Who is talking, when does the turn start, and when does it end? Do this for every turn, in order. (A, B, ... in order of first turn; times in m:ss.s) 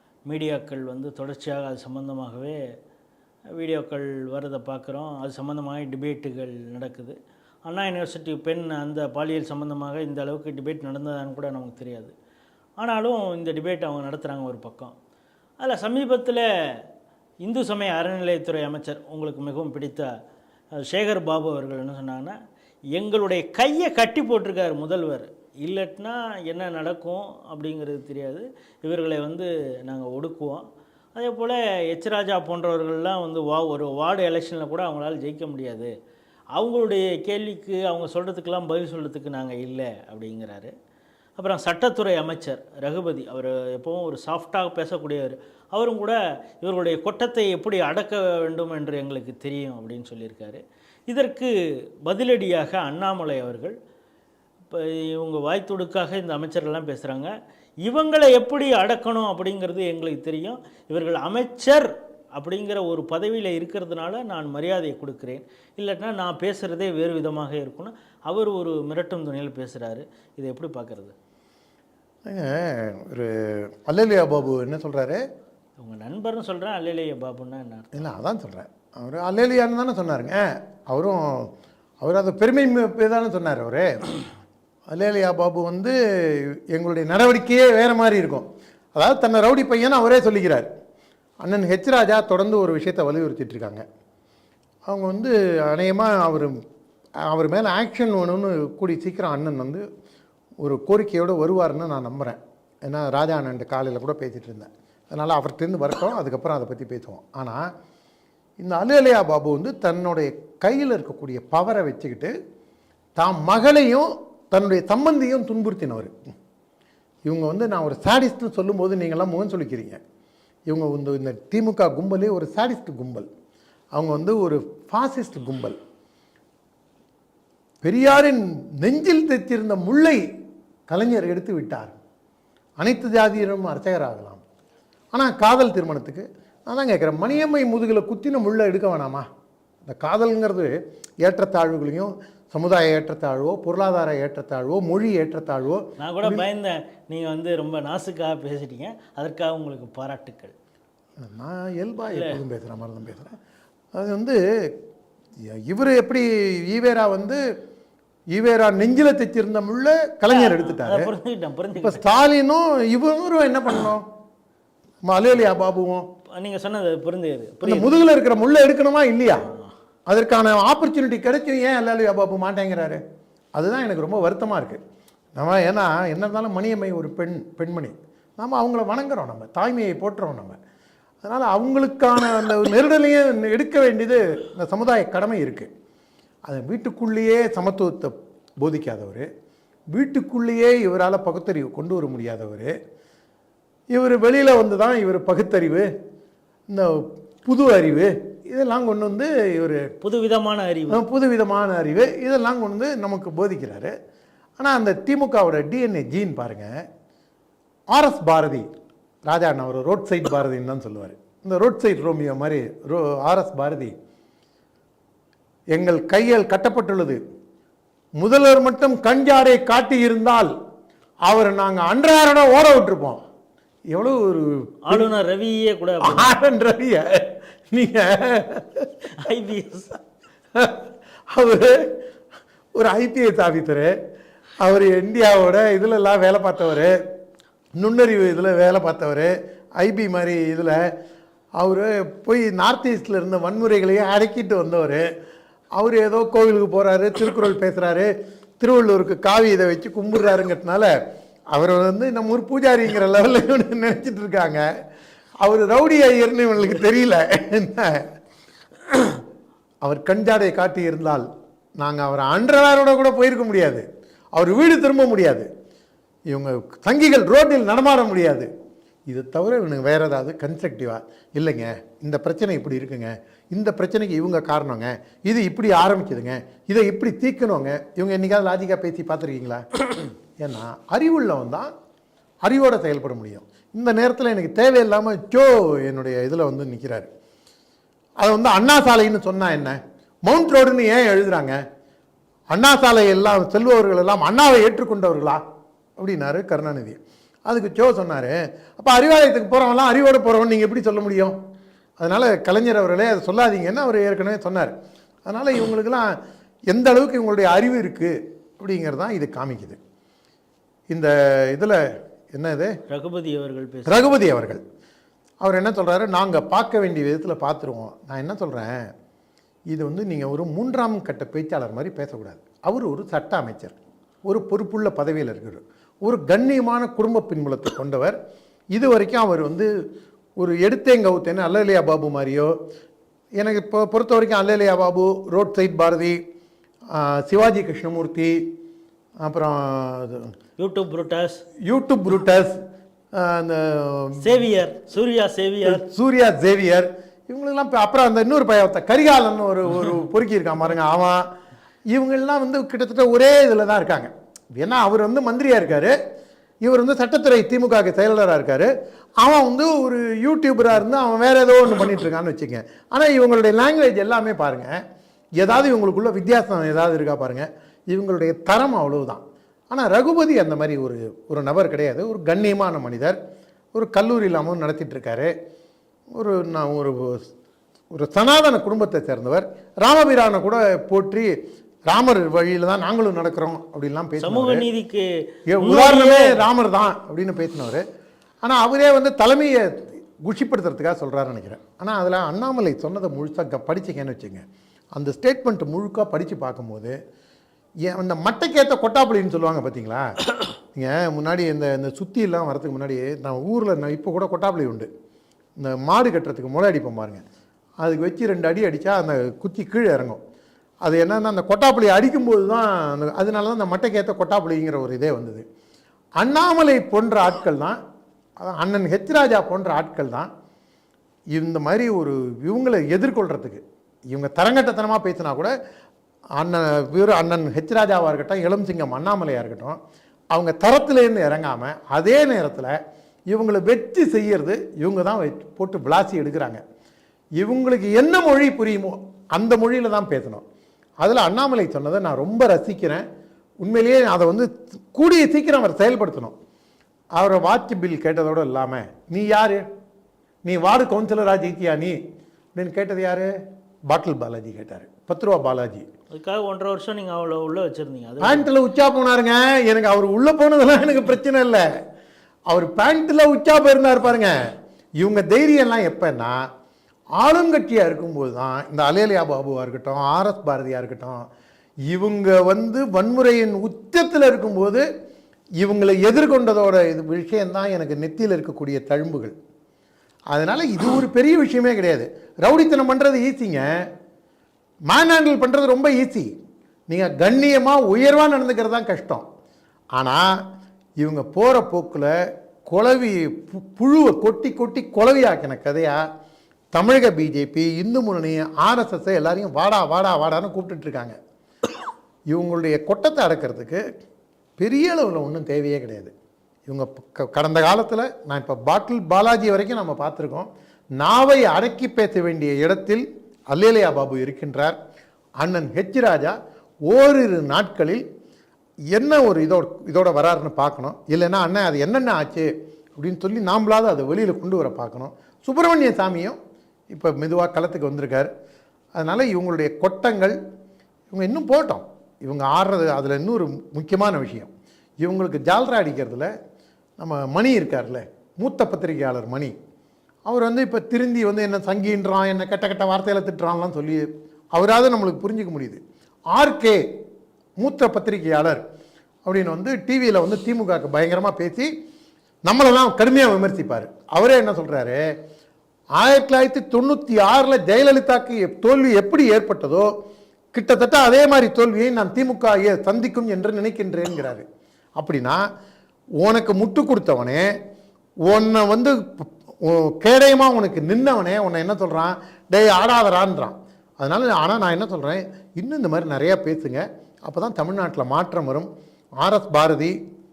0:00.3-0:02.6 A
0:03.6-0:07.1 A
0:07.6-0:12.1 A
0:12.8-0:14.9 A
0:15.6-0:16.8 A
0:17.4-0:20.1 A
0:20.8-0:22.4 A
0:22.9-0:35.9 A
0:36.6-0:40.7 A
0:41.4-0:51.5 A
0:52.0-0:53.7 A
0:54.7-0:57.3 A
0:57.8-1:11.1 A
1:12.3-1:15.2 B
1:15.8-1:18.1 A
1:17.9-1:21.5 B
1:22.0-1:24.0 B
1:24.9-1:30.7 B
1:31.4-1:33.8 B
1:34.8-1:36.6 B
1:37.3-1:39.8 B
1:40.6-1:47.6 B
1:48.6-1:52.3 B
1:53.2-1:56.1 B
1:57.2-2:00.0 B
2:00.7-2:03.2 B
2:03.9-2:05.8 B
2:07.8-2:10.2 B
2:10.9-2:12.0 B
2:12.8-2:14.4 B
2:15.1-2:19.2 B
2:19.8-2:26.4 B
2:26.0-2:30.5 A
2:31.2-2:33.3 B
2:32.1-2:32.4 A
2:33.9-2:34.4 B
2:35.5-2:37.4 B
2:38.3-2:41.1 B
2:40.3-2:42.0 A
2:41.7-2:44.0 B
2:45.0-2:46.0 B
2:46.3-2:48.0 A
2:47.6-2:49.5 B
2:49.4-2:49.7 A
2:50.1-2:53.0 B
2:53.5-2:54.8 B
2:55.4-3:00.6 B
3:01.2-3:05.7 B
3:06.4-3:09.3 B
3:09.9-3:12.7 B
3:13.9-3:15.9 B
3:16.7-3:19.8 B
3:20.0-3:21.0 A
3:20.9-3:23.9 B
3:24.6-3:26.7 B
3:27.9-3:28.6 B
3:29.2-3:33.9 B
3:35.7-3:37.2 B
3:38.2-3:40.5 B
3:41.2-3:43.2 B
3:43.9-3:45.1 B
3:44.9-3:46.3 A
3:46.0-3:48.9 B
3:49.1-3:50.0 A
3:50.5-3:51.8 B
3:52.7-3:53.9 B
3:54.6-3:57.0 B
3:57.8-4:00.8 B
4:01.6-4:05.1 B
4:05.7-4:08.1 B
4:08.6-4:10.9 B
4:11.5-4:14.6 B
4:15.4-4:18.0 B
4:19.8-4:21.2 B
4:21.8-4:25.5 B
4:26.3-4:28.5 B
4:29.1-4:39.8 B
4:40.4-4:41.7 B
4:42.4-4:47.1 B
4:48.2-4:51.6 B
4:52.5-4:55.4 B
4:56.0-5:01.3 B
5:02.0-5:04.7 B
5:05.2-5:06.1 B
5:06.7-5:09.8 B
5:10.9-5:11.8 B
5:12.3-5:12.7 B
5:12.9-5:14.2 A
5:13.9-5:14.6 B
5:15.4-5:18.8 B
5:19.7-5:28.2 B
5:28.7-5:29.7 B
5:30.4-5:32.5 B
5:33.4-5:36.2 B
5:36.9-5:38.4 B
5:39.2-5:40.3 B
5:40.6-5:41.4 A
5:41.6-5:42.5 B
5:43.2-5:44.3 B
5:44.2-5:45.8 A
5:45.6-5:51.2 B
5:51.9-5:55.9 B
5:56.6-6:04.7 B
6:05.4-6:13.2 B
6:13.7-6:15.3 B
6:16.1-6:17.2 B
6:17.9-6:21.3 B
6:21.9-6:24.6 B
6:24.2-6:25.1 A
6:25.5-6:27.8 B
6:25.6-6:26.5 A
6:28.4-6:34.4 B
6:34.9-6:36.9 B
6:37.8-6:40.2 B
6:40.7-6:44.9 B
6:45.6-6:47.2 B
6:47.8-6:50.2 B
6:50.8-6:55.4 B
6:56.2-6:57.8 B
6:58.4-7:00.3 B
7:01.3-7:05.5 B
7:06.4-7:09.8 B
7:10.3-7:12.8 B
7:13.3-7:16.6 B
7:17.4-7:20.4 B
7:21.0-7:23.0 B
7:23.6-7:26.3 B
7:27.2-7:29.6 B
7:30.4-7:32.0 B
7:32.5-7:33.3 B
7:33.9-7:35.8 B
7:36.1-7:38.5 A
7:38.2-7:41.6 B
7:42.5-7:44.3 B
7:45.0-7:46.4 B
7:47.2-7:51.2 B
7:51.9-7:54.8 B
7:55.6-7:59.3 B
8:00.3-8:03.8 B
8:04.9-8:06.3 B
8:06.9-8:09.2 B
8:09.9-8:10.4 B
8:11.0-8:12.1 B
8:12.7-8:16.0 B
8:16.7-8:21.1 B
8:22.3-8:23.8 B
8:24.6-8:26.1 B
8:26.7-8:30.5 B
8:31.0-8:34.8 B
8:35.4-8:36.3 B
8:36.9-8:38.0 B
8:38.9-8:46.4 B
8:46.9-8:48.3 B
8:49.0-8:50.4 B
8:51.1-8:54.5 B
8:55.0-8:56.3 B
8:57.0-8:59.5 B
9:00.2-9:05.8 B
9:06.3-9:06.8 B
9:07.6-9:08.6 B
9:09.2-9:11.7 B
9:12.5-9:15.0 B
9:16.0-9:19.9 B
9:20.5-9:24.4 B
9:25.0-9:25.4 B
9:26.2-9:27.5 B
9:28.2-9:38.7 B
9:39.2-9:39.9 B